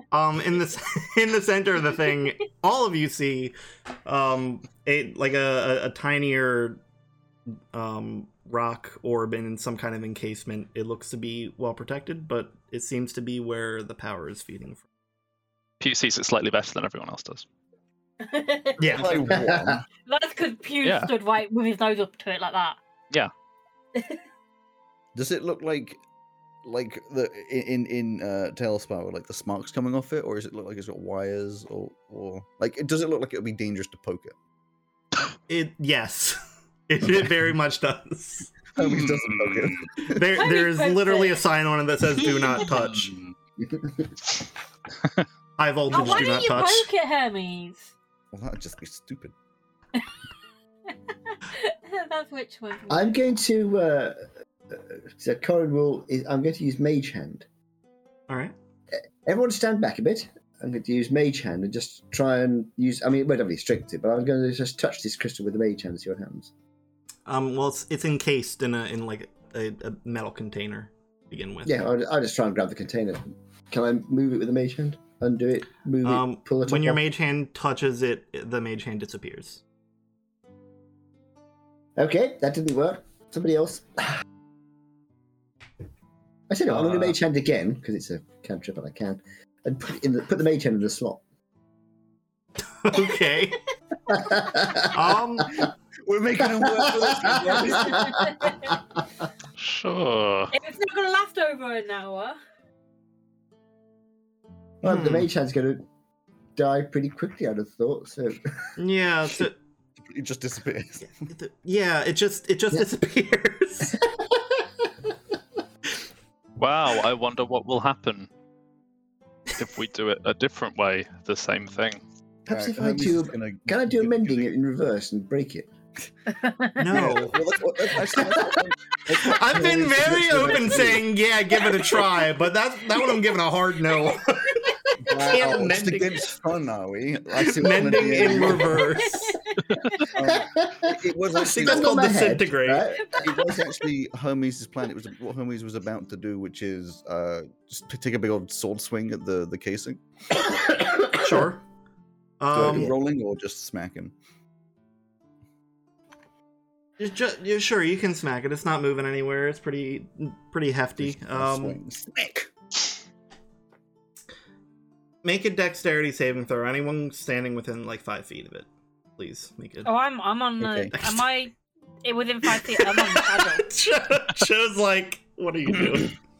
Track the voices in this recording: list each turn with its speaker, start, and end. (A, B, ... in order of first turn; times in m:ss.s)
0:00.1-0:03.5 A
0:04.0-0:06.8 A
0:07.7-0:14.8 A
0:15.8-0:17.5 B
0:18.2-0:19.4 C
0:18.8-0:19.2 A
0:18.9-0:19.8 D
0:19.3-0:19.8 E
0:20.1-0:22.8 C
0:20.8-0:21.1 B
0:24.0-0:24.2 C
0:25.2-0:26.0 D
0:26.6-0:34.4 D
0:35.5-0:38.6 A
0:38.8-0:40.3 D
0:38.8-0:39.9 B
0:40.0-0:43.2 A
0:40.3-0:41.4 C
0:42.2-0:42.7 C
0:42.8-0:43.3 B
0:45.6-0:46.9 A
0:45.9-0:47.9 C
0:48.3-0:49.3 D
0:51.3-0:53.2 C
0:52.9-0:57.5 E
0:58.3-0:58.5 A
0:58.9-1:06.5 E
1:07.3-1:11.9 A
1:11.6-1:17.0 E
1:16.0-1:19.6 A
1:22.0-1:24.2 E
1:26.5-1:31.2 E
1:26.7-1:27.2 A
1:32.7-1:33.6 A
1:34.1-1:35.7 E
1:34.9-1:35.7 A
1:36.0-1:38.4 D
1:36.5-1:38.8 E
1:37.9-1:38.5 C
1:39.6-1:40.6 B
1:40.5-1:42.4 C
1:44.8-1:45.8 E
1:44.8-1:45.3 A
1:46.6-1:48.7 E
1:48.8-1:49.6 A
1:50.0-1:51.1 D
1:51.0-1:54.0 A
1:54.1-1:54.7 E
1:56.6-1:58.3 B
1:59.6-2:02.0 B
2:02.5-2:04.5 D
2:02.5-2:05.7 E
2:06.3-2:07.0 C
2:06.8-2:07.4 A
2:06.9-2:11.1 D
2:09.1-2:16.2 A
2:15.0-2:19.1 D
2:17.4-2:19.4 A
2:18.3-2:18.6 E
2:19.1-2:20.2 C
2:20.1-2:22.2 D
2:20.2-2:23.6 E
2:21.4-2:22.9 A
2:23.2-2:30.0 D
2:30.4-2:31.4 E
2:31.2-2:31.6 A
2:32.4-2:32.9 A
2:32.5-2:34.1 D
2:37.0-2:41.8 A
2:41.0-2:42.5 D
2:45.2-2:49.9 A
2:49.8-2:53.7 C
2:50.6-2:51.0 D
2:52.5-2:56.1 A